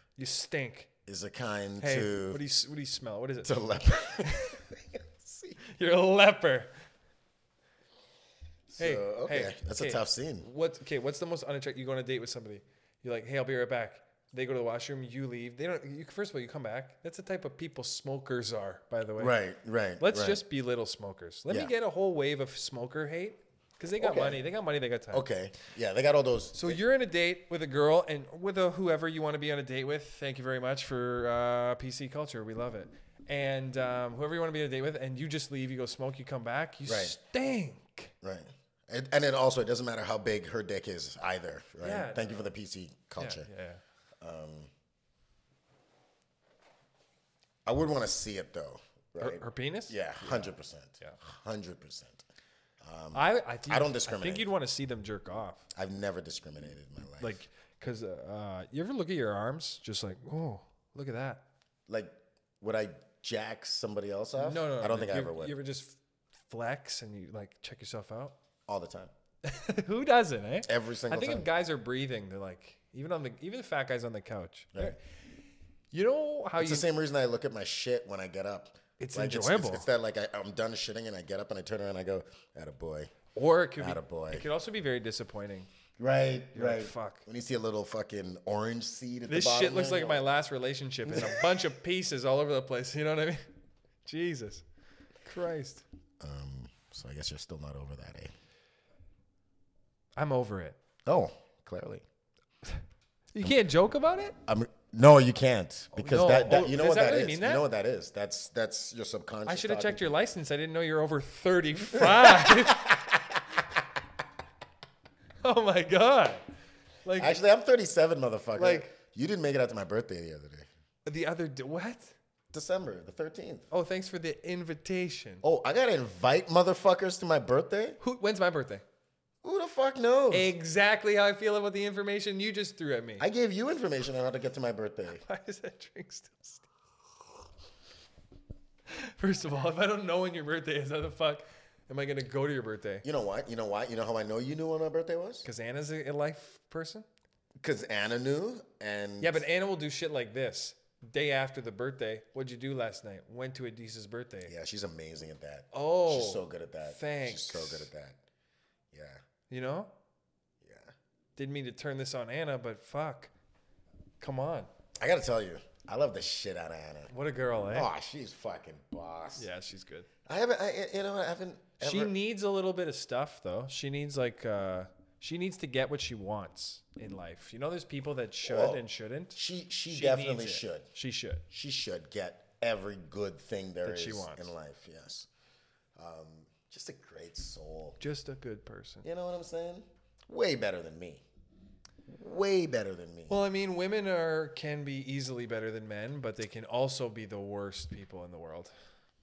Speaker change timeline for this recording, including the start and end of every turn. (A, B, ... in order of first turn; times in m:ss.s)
0:00.2-0:00.9 A
0:01.1-0:02.4 B
0:01.8-0:03.6 A
0:03.4-0:05.6 B
0:04.2-0:04.6 A
0:05.6-0:06.7 A
0:08.7-0:10.5 B
0:08.8-0:19.4 A
0:19.2-0:20.4 B
0:20.0-0:25.2 A
0:24.0-0:24.4 B
0:25.1-0:26.8 B
0:26.6-0:38.1 A
0:36.9-0:37.1 B
0:38.2-0:43.5 B
0:41.8-0:42.5 A
0:43.2-0:43.8 A
0:44.2-0:44.7 B
0:47.7-0:52.2 B
0:49.2-0:51.2 A
0:52.8-0:54.5 B
0:53.1-0:55.7 A
0:55.7-0:57.4 B
0:57.2-1:01.4 A
1:01.9-1:05.6 B
1:04.4-1:08.4 A
1:08.7-1:09.1 B
1:09.4-1:15.0 A
1:10.6-1:11.5 B
1:15.9-1:16.9 A
1:16.6-1:23.1 B
1:19.0-1:19.9 A
1:23.4-1:25.7 A
1:23.8-1:24.5 B
1:26.0-1:30.2 B
1:26.5-1:27.3 A
1:29.3-1:33.4 A
1:31.1-1:31.5 B
1:34.1-1:34.6 A
1:35.2-1:35.8 A
1:36.2-1:38.3 B
1:40.2-1:40.8 A
1:41.1-1:42.0 B
1:43.3-1:44.4 A
1:44.5-1:50.1 B
1:45.9-1:47.6 A
1:49.5-1:53.0 A
1:51.9-1:53.8 B
1:55.4-1:56.4 A
1:57.0-1:57.4 A
1:57.2-2:00.7 B
1:58.6-1:58.9 A
2:01.0-2:02.2 A
2:02.5-2:03.7 B
2:03.7-2:05.4 A
2:05.4-2:08.0 B
2:08.0-2:08.8 A
2:09.4-2:10.5 B
2:10.3-2:13.3 A
2:13.2-2:15.2 B
2:15.1-2:16.7 A
2:18.9-2:23.1 A
2:23.0-2:25.5 B
2:25.4-2:27.1 A
2:27.6-2:29.4 B
2:29.2-2:34.5 A
2:34.5-2:38.2 B
2:35.7-2:37.9 A
2:38.9-2:39.2 B
2:39.5-2:39.9 A
2:40.6-2:40.9 B
2:41.4-2:43.3 A
2:44.2-2:44.7 A
2:45.0-2:47.1 B
2:47.1-2:47.9 A
2:47.7-2:49.5 B
2:49.4-2:50.1 A
2:50.3-2:52.1 B
2:51.8-2:59.4 A
2:58.4-2:58.8 B
2:59.4-3:00.9 B
2:59.9-3:01.4 A
3:01.5-3:05.3 B
3:03.8-3:04.5 A
3:06.0-3:08.0 B
3:08.0-3:09.0 A
3:09.0-3:11.2 B
3:12.1-3:13.4 B
3:13.3-3:18.7 A